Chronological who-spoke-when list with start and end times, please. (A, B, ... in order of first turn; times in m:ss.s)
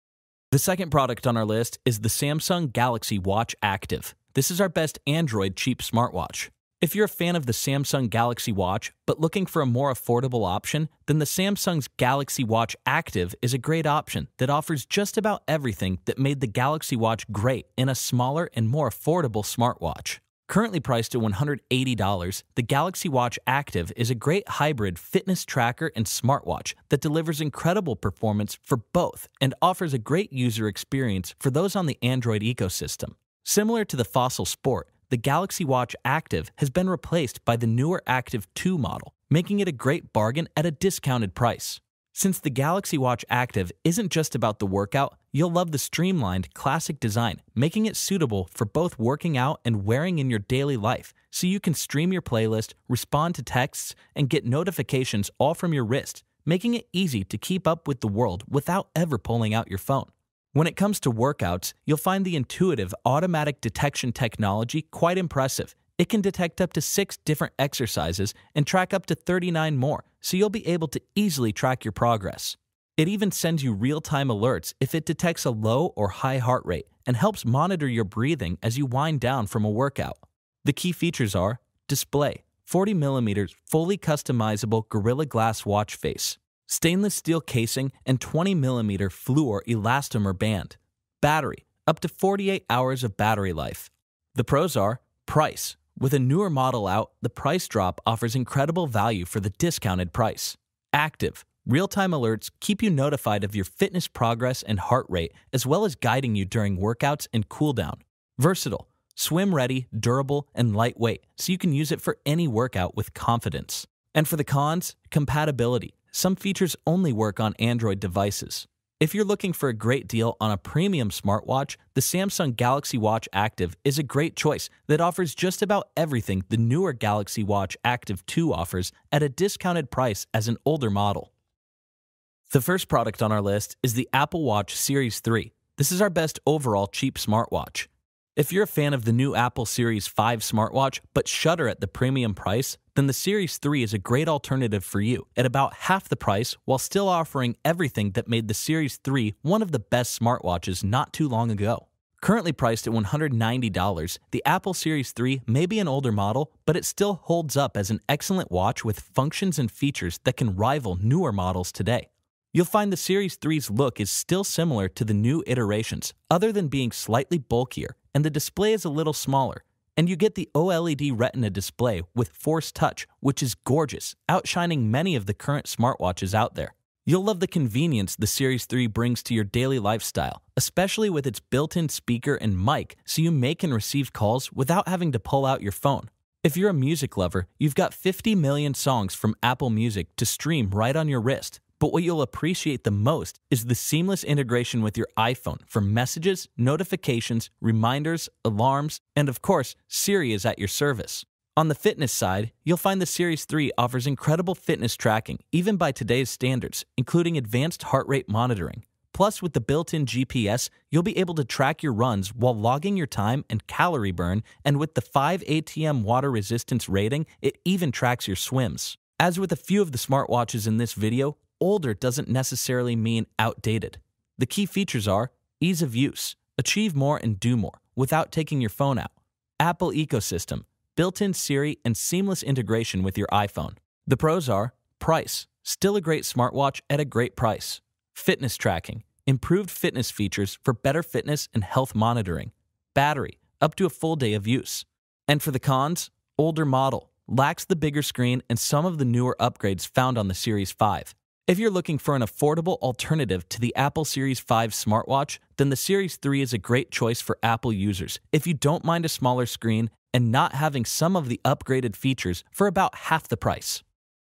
0:00.5-2:11.3 A
2:12.5-4:23.8 A